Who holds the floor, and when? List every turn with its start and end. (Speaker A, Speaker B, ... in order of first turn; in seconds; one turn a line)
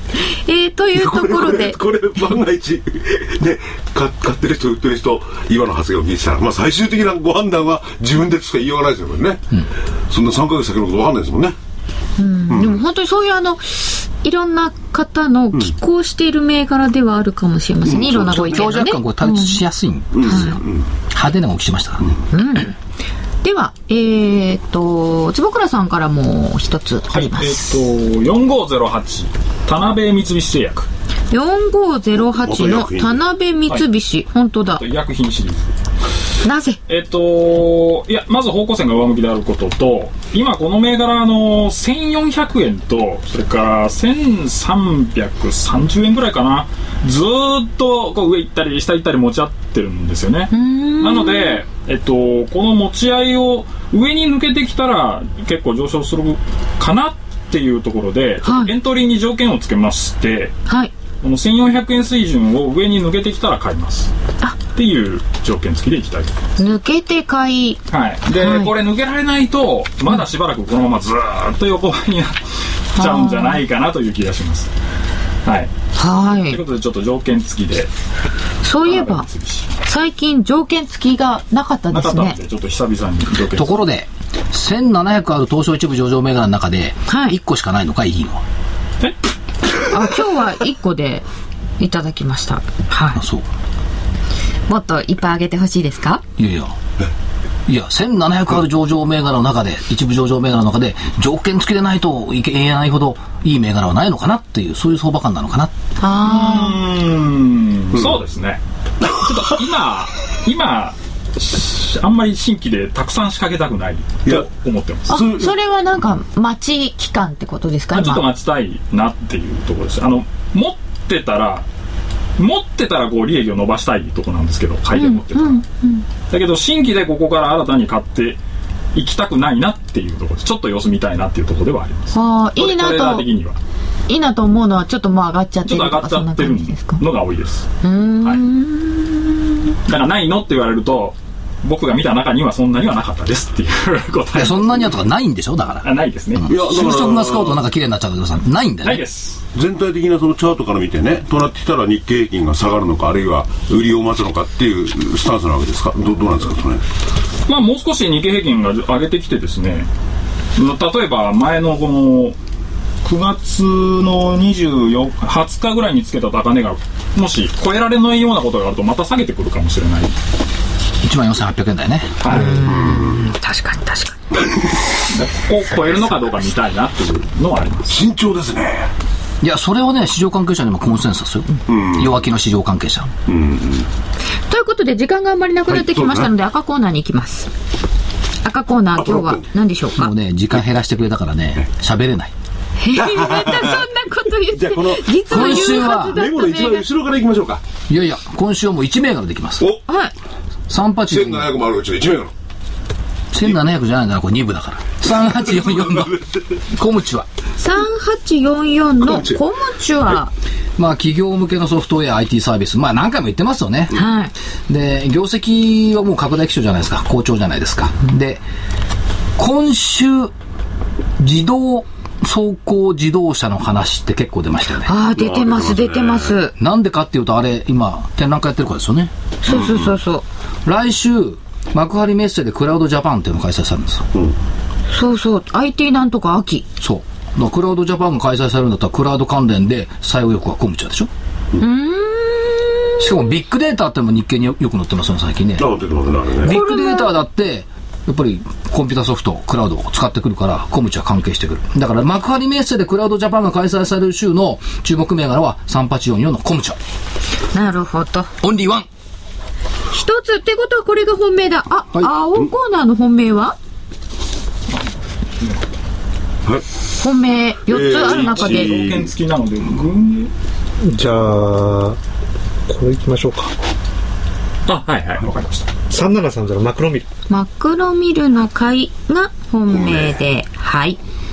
Speaker A: 0.2-1.8
Speaker B: 0.9-11.6
Speaker A: 12.2-19.6
Speaker B: 12.5-12.8
Speaker B: 17.8-18.6
Speaker C: 18.5-22.1
Speaker B: 20.1-20.9
Speaker A: 20.2-20.6
Speaker A: 22.3-22.8
Speaker A: 23.4-27.8
Speaker D: 27.1-30.9
Speaker A: 31.3-34.8
Speaker B: 32.3-33.2
Speaker D: 34.8-35.8
Speaker A: 36.4-36.8
Speaker D: 36.9-60.5
Speaker A: 50.5-51.6
Speaker A: 58.4-58.7
Speaker A: 60.7-60.9
Speaker D: 61.2-64.1
Speaker D: 64.7-66.4
Speaker A: 66.6-68.7
Speaker D: 67.9-74.7
Speaker A: 73.0-73.6
Speaker D: 75.5-75.7
Speaker A: 76.0-76.6
Speaker D: 76.4-77.9
Speaker A: 78.6-79.3
Speaker D: 78.8-79.7
Speaker A: 79.9-82.4
Speaker D: 81.9-83.8
Speaker C: 83.5-88.4
Speaker A: 87.1-87.4
Speaker A: 89.9-91.3
Speaker A: 91.8-93.2
Speaker C: 93.1-93.5
Speaker A: 94.7-96.2
Speaker C: 96.4-96.8
Speaker C: 97.7-105.7
Speaker A: 106.0-106.8
Speaker D: 106.2-115.2
Speaker B: 115.1-115.5
Speaker A: 115.1-118.2
Speaker D: 117.9-121.7
Speaker D: 122.4-125.6
Speaker A: 124.9-126.0
Speaker D: 126.3-128.4
Speaker D: 128.9-133.6
Speaker A: 132.1-133.2
Speaker A: 134.1-137.0
Speaker D: 135.7-137.7
Speaker A: 137.8-139.6
Speaker D: 139.9-144.9
Speaker C: 144.3-149.0
Speaker D: 145.8-146.5
Speaker B: 146.5-147.6
Speaker D: 148.8-149.4
Speaker B: 149.5-156.8
Speaker D: 157.5-159.9
Speaker D: 160.6-162.4
Speaker D: 163.0-170.1
Speaker C: 171.0-172.4
Speaker D: 172.2-172.6
Speaker A: 172.3-174.2
Speaker B: 172.7-173.3
Speaker D: 175.1-178.0
Speaker B: 177.9-178.9
Speaker C: 179.4-183.1
Speaker B: 181.7-182.2
Speaker B: 183.3-183.9
Speaker A: 184.5-187.5
Speaker B: 185.7-186.3
Speaker A: 188.4-190.1
Speaker B: 189.0-189.4
Speaker C: 189.9-192.3
Speaker A: 192.8-196.9
Speaker B: 192.9-193.9
Speaker B: 194.5-197.6
Speaker C: 195.3-196.2
Speaker C: 197.9-199.6
Speaker A: 199.9-200.1
Speaker C: 200.7-201.6
Speaker B: 201.1-202.3
Speaker C: 203.3-206.1
Speaker B: 205.4-206.4
Speaker C: 206.7-207.3
Speaker A: 207.6-210.3
Speaker B: 209.0-209.4
Speaker C: 210.8-214.0
Speaker A: 213.9-214.3
Speaker C: 214.7-218.4
Speaker C: 219.4-220.3
Speaker C: 221.2-224.9
Speaker A: 224.8-226.5
Speaker B: 225.1-226.4
Speaker C: 226.6-229.1
Speaker A: 229.4-230.2
Speaker B: 229.5-229.9
Speaker C: 230.7-234.1
Speaker A: 234.9-236.7
Speaker C: 236.8-241.1
Speaker A: 241.6-243.1
Speaker C: 243.0-245.7
Speaker B: 245.6-246.5
Speaker C: 246.3-256.8
Speaker A: 246.4-247.2
Speaker A: 257.5-258.3
Speaker C: 258.4-258.9
Speaker A: 259.9-263.6
Speaker A: 267.0-268.8
Speaker B: 267.7-269.1
Speaker D: 268.1-270.3
Speaker E: 270.8-272.0
Speaker E: 272.7-273.5
Speaker D: 274.7-275.6
Speaker E: 275.9-277.1
Speaker A: 277.3-281.0
Speaker B: 279.7-280.2